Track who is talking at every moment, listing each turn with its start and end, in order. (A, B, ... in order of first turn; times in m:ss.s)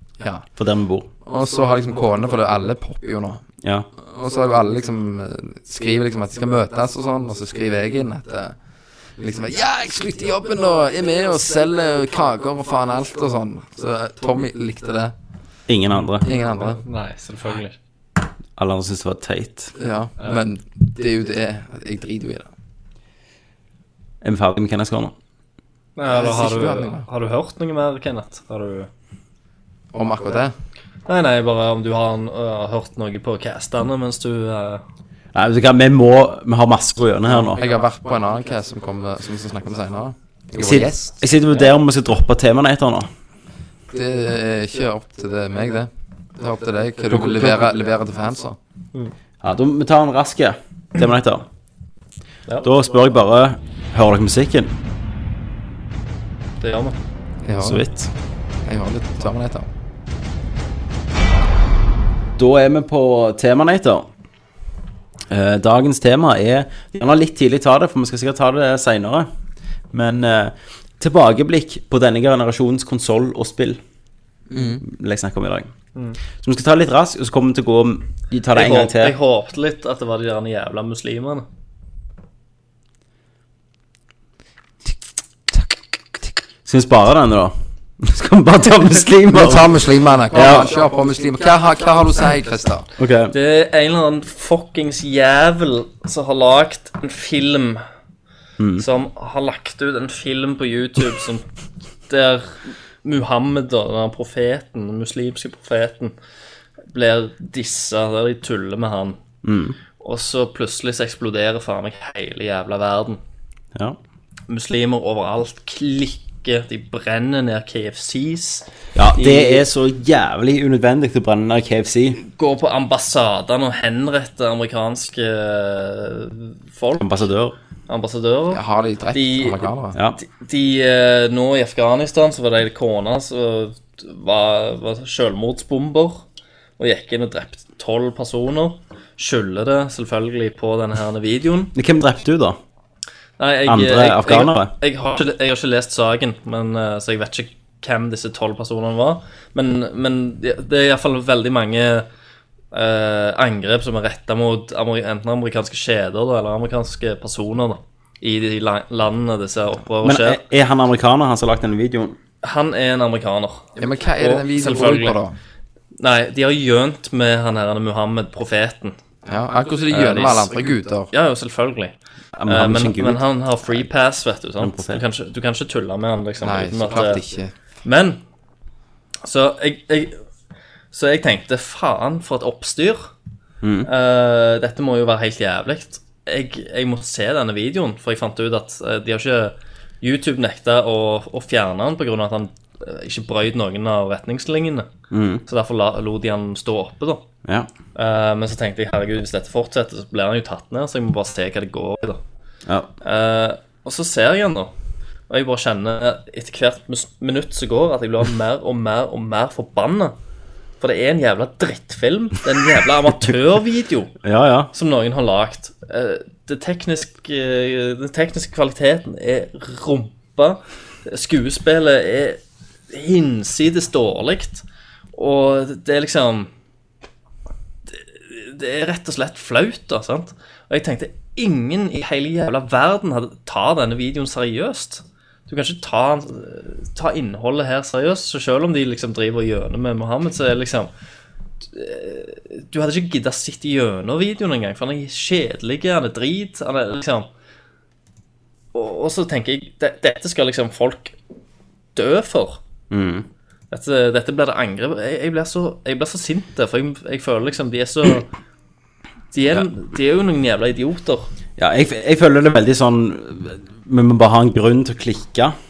0:00.2-0:00.5 A
0:00.6-0:01.1 B
0:01.2-0:03.4 A
0:04.0-0:08.6 A
0:09.2-0:15.1 A
0:15.7-0:16.3 B
0:16.2-0:16.8 A
0:16.8-0:17.8 C
0:18.6-0:19.7 B
0:19.8-0:22.5 A
0:24.2-0:25.1 B
0:26.0-0:28.9 C
0:26.1-0:27.1 A
0:29.9-0:30.5 A
0:31.1-0:34.8 C
0:35.4-0:37.6 B
0:37.3-0:41.2 A
0:40.6-0:43.1 B
0:43.9-0:48.6 A
0:47.1-0:47.6 B
0:49.4-0:51.5 B
0:52.6-0:54.7 B
0:56.6-0:57.0 C
0:57.4-0:57.8 A
0:57.6-0:58.1 B
0:58.6-0:59.7 A
1:02.4-1:04.1 B
1:05.3-1:09.3 B
1:09.9-1:13.8 B
1:14.5-1:14.8 A
1:14.8-1:15.7 B
1:16.4-1:19.2 B
1:18.5-1:21.5 C
1:26.6-1:29.7 B
1:29.3-1:32.9 A
1:30.3-1:30.7 B
1:33.0-1:33.4 B
1:33.3-1:37.8 C
1:38.6-1:38.9 B
1:38.8-1:41.4 C
1:42.1-1:46.2 C
1:46.9-1:49.2 C
1:49.4-1:49.8 B
1:50.0-1:53.2 C
1:54.5-1:59.6 C
1:59.0-2:02.2 B
2:02.2-2:07.1 C
2:07.0-2:07.6 B
2:07.9-2:09.6 C
2:08.5-2:10.0 A
2:10.2-2:16.2 C
2:16.8-2:21.7 C
2:21.8-2:22.6 B
2:23.4-2:32.1 C
2:23.7-2:24.7 B
2:32.7-2:40.4 C
2:40.0-2:42.2 B
2:42.4-2:43.7 C
2:43.8-2:45.4 A
2:44.2-2:45.2 C
2:46.0-2:49.0 C
2:49.3-2:51.1 A
2:49.9-2:50.5 C
2:51.1-2:52.0 C
2:52.4-2:53.2 B
2:52.5-2:57.2 C
2:54.6-2:55.0 B
2:56.4-2:57.5 A
2:57.8-2:58.2 C
2:59.2-3:00.2 C
3:00.9-3:03.1 C
3:03.6-3:03.9 B
3:03.8-3:14.9 C
3:15.1-3:15.4 B
3:15.5-3:17.2 C
3:18.0-3:22.2 C
3:23.0-3:24.7 C
3:25.3-3:30.2 C
3:30.8-3:34.1 C
3:34.2-3:34.7 B
3:34.7-3:46.5 C
3:47.9-4:00.9 C
4:01.7-4:07.3 C
4:08.7-4:11.2 C
4:12.0-4:12.6 C
4:12.9-4:13.3 B
4:13.7-4:18.3 C
4:19.3-4:21.3 C
4:21.6-4:25.6 B